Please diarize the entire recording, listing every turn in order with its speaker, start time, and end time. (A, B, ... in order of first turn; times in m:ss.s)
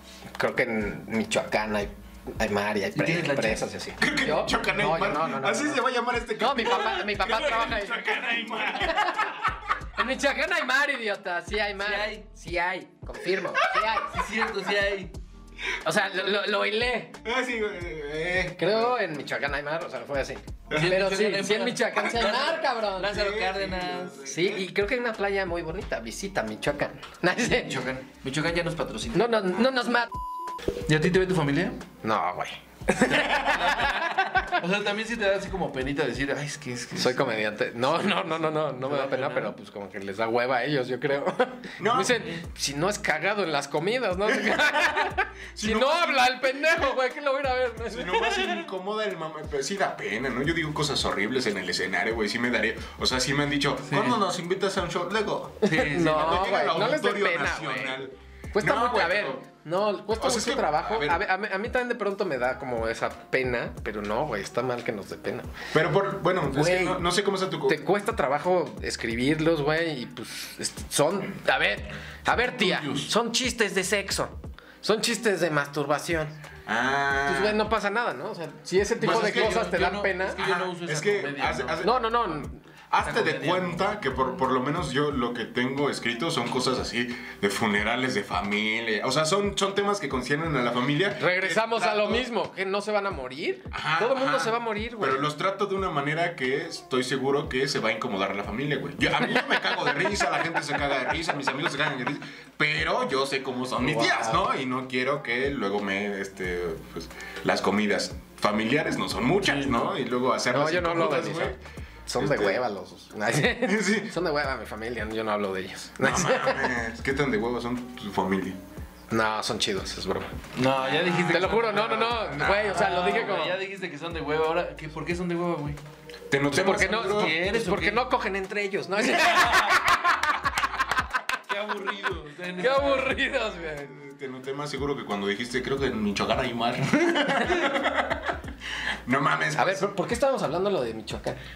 0:00.4-0:05.8 A
0:02.9-0:03.7 B
0:04.0-0:09.4 C
0:06.4-0:08.3 A
0:08.3-0:08.7 B
0:08.9-0:09.4 A
0:10.0-0:14.2 A
0:11.8-0:12.3 B
0:14.1-0:15.1 B
0:15.8-0:17.2 A
0:17.2-0:18.9 C
0:18.6-0:23.3 A
0:20.7-0:24.2 B
0:22.1-0:22.6 C
0:23.1-0:24.6 C
0:24.2-0:27.8 A
0:27.5-0:29.3 B
0:29.1-0:30.1 A
0:30.9-0:31.8 B
0:32.0-0:34.5 A
0:33.0-0:37.3 B
0:37.0-0:48.7 A
0:38.8-0:39.6 B
0:41.8-0:42.2 C
0:44.4-0:46.5 C
0:47.9-0:59.4 C
0:53.9-0:54.2 B
0:55.6-0:56.7 B
0:55.6-0:58.0 A
0:58.5-1:05.6 A
1:00.2-1:01.2 C
1:05.7-1:07.8 C
1:06.5-1:07.0 A
1:07.7-1:16.4 A
1:12.3-1:13.1 B
1:16.7-1:17.6 C
1:17.3-1:20.4 A
1:19.0-1:21.9 B
1:19.0-1:19.7 C
1:20.4-1:32.2 C
1:21.8-1:22.6 A
1:23.0-1:24.0 B
1:31.2-1:35.3 A
1:33.7-1:51.6 C
1:43.8-1:44.4 A
1:50.5-1:56.7 A
1:52.2-1:52.6 C
1:53.5-1:54.1 C
1:56.0-1:58.6 C
1:59.1-2:00.4 A
2:00.5-2:05.8 B
2:01.2-2:03.6 A
2:02.4-2:03.1 C
2:06.3-2:07.3 C
2:06.5-2:10.2 A
2:06.9-2:08.0 B
2:09.3-2:09.8 B
2:11.5-2:13.2 B
2:12.6-2:13.9 A
2:13.8-2:18.4 C
2:17.4-2:17.8 A
2:19.1-2:19.9 C
2:19.6-2:21.4 A